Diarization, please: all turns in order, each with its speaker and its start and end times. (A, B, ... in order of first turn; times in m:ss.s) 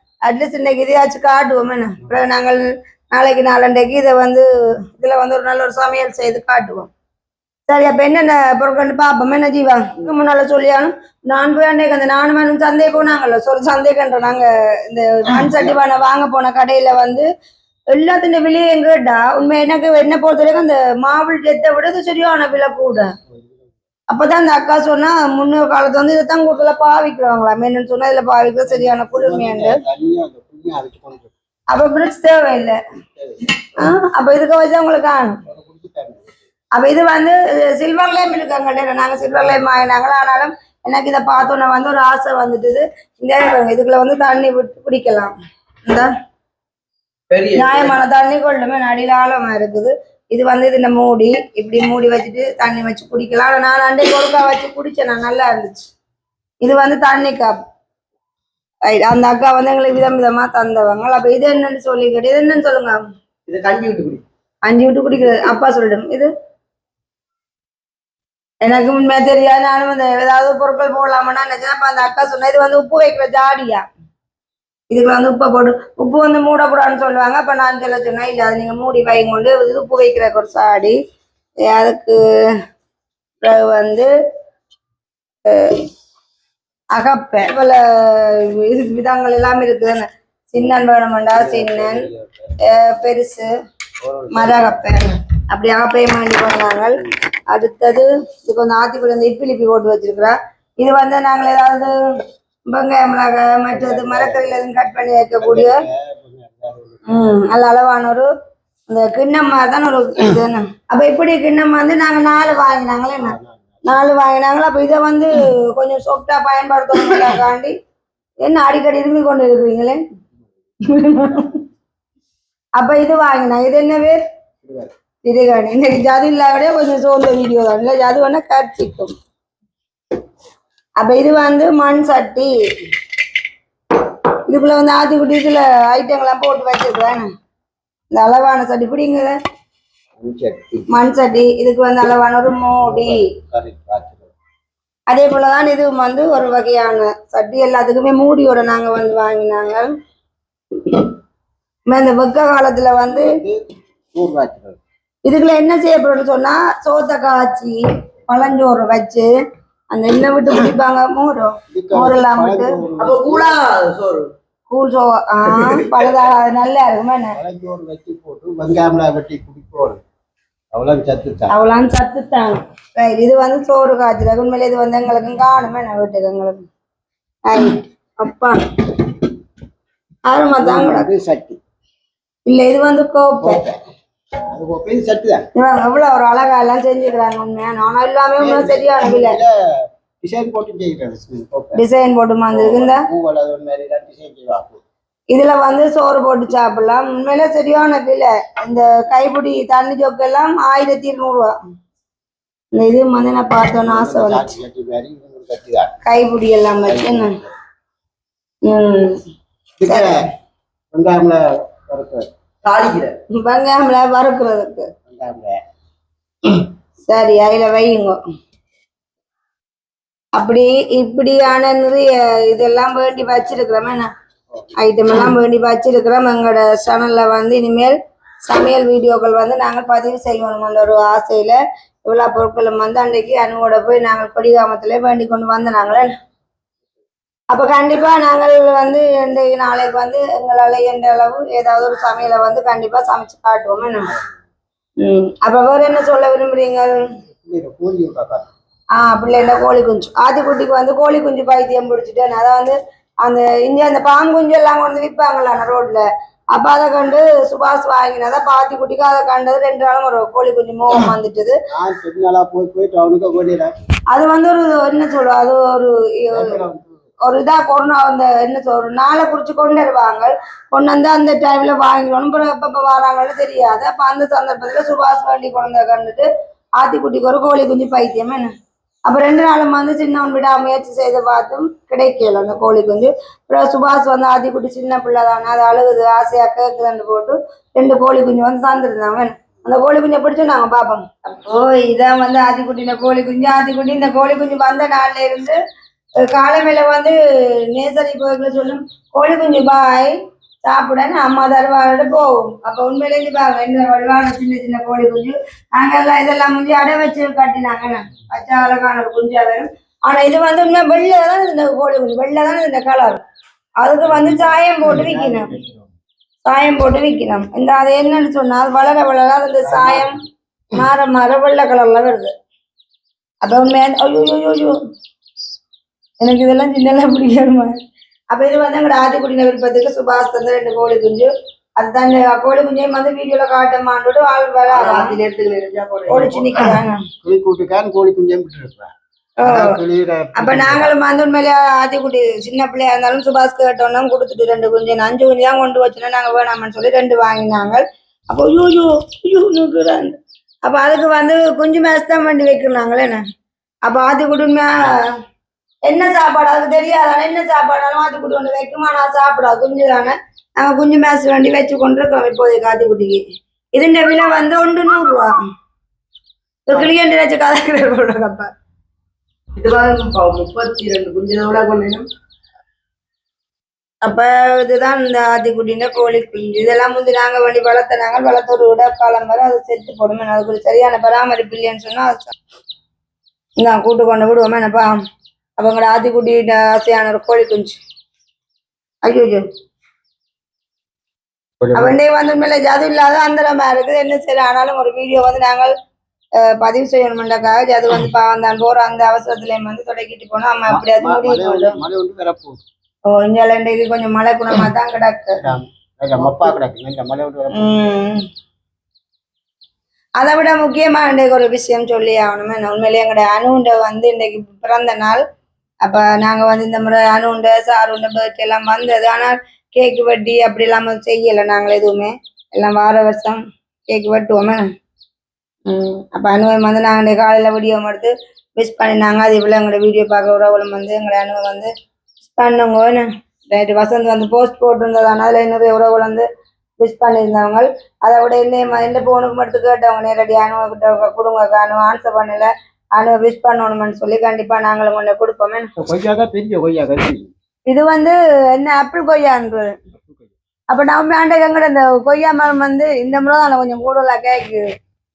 0:00.3-0:06.9 A
0:07.7-0:17.3 A
0:17.9-0:23.1 A
0:23.3-0:23.6 B
0:24.1-0:29.8 A
0:28.7-0:31.3 B
0:31.7-0:32.8 A
0:33.1-0:33.4 B
0:33.8-0:35.4 A
0:35.4-0:36.4 B
0:36.8-0:45.3 A
0:47.3-0:48.0 C
0:47.5-0:55.9 A
0:56.6-0:57.6 A
0:58.9-1:03.0 A
1:03.5-1:04.2 C
1:04.6-1:06.3 A
1:08.6-1:13.8 A
1:14.9-1:21.0 A
1:21.7-1:22.2 A
1:23.4-1:24.1 A
1:25.5-1:25.8 A
1:26.9-1:32.0 A
1:31.3-1:32.5 B
1:32.7-1:33.5 A
1:34.0-1:34.9 B
1:34.3-1:41.9 A
1:42.7-1:45.8 A
1:43.7-1:44.6 B
1:45.4-1:47.0 B
1:47.1-1:48.3 A
1:48.9-1:57.7 A
1:53.2-1:53.8 B
1:58.4-2:00.0 A
2:00.9-2:01.6 A
2:02.8-2:04.2 A
2:04.6-2:04.9 B
2:05.2-2:09.1 A
2:11.0-2:12.5 A
2:14.5-2:17.3 A
2:18.1-2:19.4 A
2:20.2-2:20.9 B
2:20.9-2:23.2 A
2:22.8-2:24.3 B
2:25.1-2:29.9 A
2:31.9-2:33.3 A
2:33.1-2:33.6 B
2:34.1-2:34.8 B
2:35.2-2:39.3 A
2:39.9-2:42.7 A
2:41.7-2:43.6 B
2:43.0-2:44.3 C
2:44.7-2:47.4 A
2:45.6-2:46.1 C
2:47.4-2:50.0 B
2:50.7-2:51.5 B
2:51.5-2:56.6 A
2:57.5-2:59.2 A
3:00.3-3:01.1 A
3:00.6-3:01.6 B
3:02.5-3:03.6 A
3:03.4-3:03.8 B
3:04.5-3:05.5 B
3:05.6-3:09.4 A
3:08.4-3:11.8 B
3:11.8-3:13.0 A
3:12.5-3:14.8 B
3:15.3-3:21.5 A
3:22.8-3:24.6 A
3:23.8-3:26.0 B
3:26.0-3:27.3 A
3:26.9-3:27.4 B
3:28.7-3:29.2 A
3:29.8-3:30.3 B
3:30.9-3:32.3 B
3:32.6-3:33.2 C
3:33.4-3:34.9 A
3:35.1-3:35.6 B
3:36.5-3:38.2 A
3:40.4-3:44.1 A
3:44.8-3:56.1 A
3:57.5-4:04.1 A
4:05.0-4:07.0 A
4:07.4-4:08.5 B
4:09.0-4:21.6 A
4:21.7-4:23.7 B
4:24.1-4:26.6 A
4:26.3-4:27.0 B
4:27.2-4:36.3 A
4:36.8-4:38.5 A
4:39.1-4:55.6 A
4:56.2-4:57.2 A
4:57.7-5:13.2 A
5:13.8-5:15.5 A
5:14.0-5:15.9 B
5:16.4-5:20.2 A
5:19.7-5:20.1 B
5:20.7-5:22.3 A
5:23.4-5:24.7 A
5:26.2-5:27.7 A
5:28.3-5:35.2 A
5:34.7-5:36.8 C
5:36.1-5:37.0 A
5:37.2-5:40.9 B
5:39.4-5:39.8 A
5:40.4-5:53.2 A
5:53.9-5:55.0 A
5:55.9-6:03.2 A
6:03.8-6:05.3 A
6:06.7-6:08.5 A
6:09.6-6:12.0 C
6:14.0-6:22.3 A
6:23.6-6:24.9 A
6:25.6-6:27.8 A
6:29.0-6:29.4 A
6:31.6-6:32.0 B
6:31.7-6:35.7 A
6:36.6-6:41.8 A
6:40.7-6:42.6 B
6:43.1-6:45.4 A
6:45.4-6:47.8 B
6:46.2-6:46.5 A
6:47.6-6:48.2 A
6:50.2-6:55.2 A
6:55.8-7:04.7 A
7:05.7-7:11.7 A
7:12.2-7:16.3 A
7:16.8-7:25.7 A
7:25.8-7:27.3 B
7:27.7-7:29.7 A
7:30.7-7:34.7 A